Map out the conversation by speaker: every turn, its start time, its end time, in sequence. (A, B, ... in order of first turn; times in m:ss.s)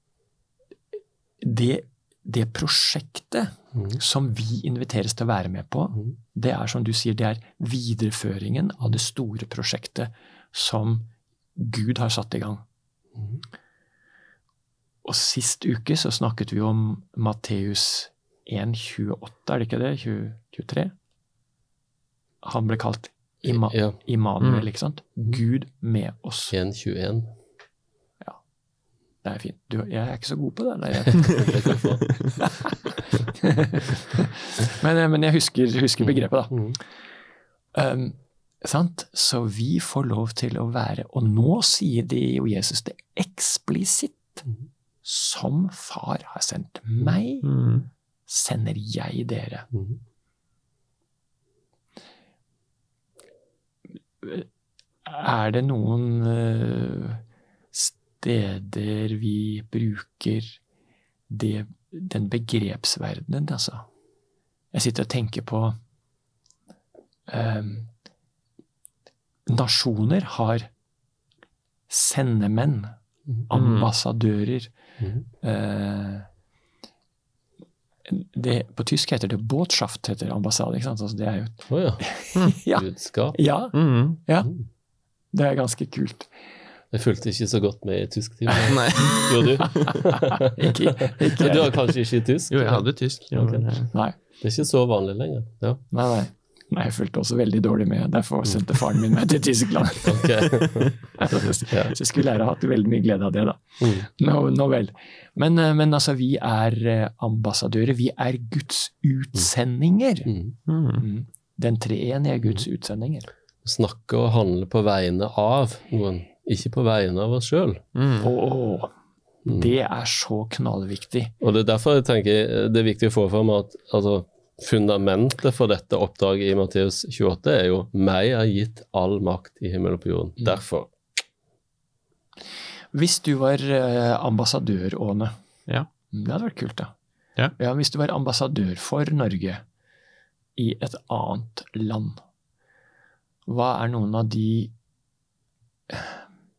0:01.4-0:12.6 A
0:15.0-0:20.9 A
0:22.4-0:26.5 A
0:23.4-0:24.0 B
0:24.4-0:24.7 C
0:26.5-0:27.4 B
0:29.2-0:31.6 A
0:31.3-0:32.1 B
0:33.4-0:36.8 A
0:36.0-0:36.8 B
0:37.8-0:44.4 A
0:45.0-0:47.5 A
0:47.4-0:47.9 C
0:48.3-0:49.7 A
0:54.2-0:54.5 A
0:55.0-0:57.2 A
0:57.7-1:00.6 A
1:01.3-1:03.9 A
1:04.7-1:05.8 A
1:07.3-1:07.9 A
1:09.5-1:10.7 A
1:11.9-1:12.9 A
1:13.5-1:14.7 A
1:13.5-1:13.9 C
1:15.0-1:15.2 B
1:15.4-1:16.3 A
1:18.1-1:24.5 A
1:21.7-1:22.0 B
1:22.7-1:23.4 B
1:23.7-1:24.2 C
1:25.3-1:26.3 A
1:26.9-1:35.8 B
1:28.7-1:29.9 C
1:29.6-1:31.9 A
1:32.5-1:33.9 C
1:35.9-1:50.3 A
1:40.1-1:42.0 B
1:43.8-1:44.1 B
1:50.3-1:50.6 B
1:50.7-1:51.0 C
1:51.0-1:53.3 A
1:53.6-1:57.8 B
1:58.0-1:58.3 C
1:58.2-1:58.9 A
1:59.4-1:59.7 B
1:59.5-2:01.3 A
2:01.4-2:10.9 B
2:12.9-2:15.3 A
2:16.1-2:16.9 A
2:17.6-2:19.6 A
2:20.6-2:22.2 A
2:23.5-2:24.7 A
2:25.9-2:26.2 A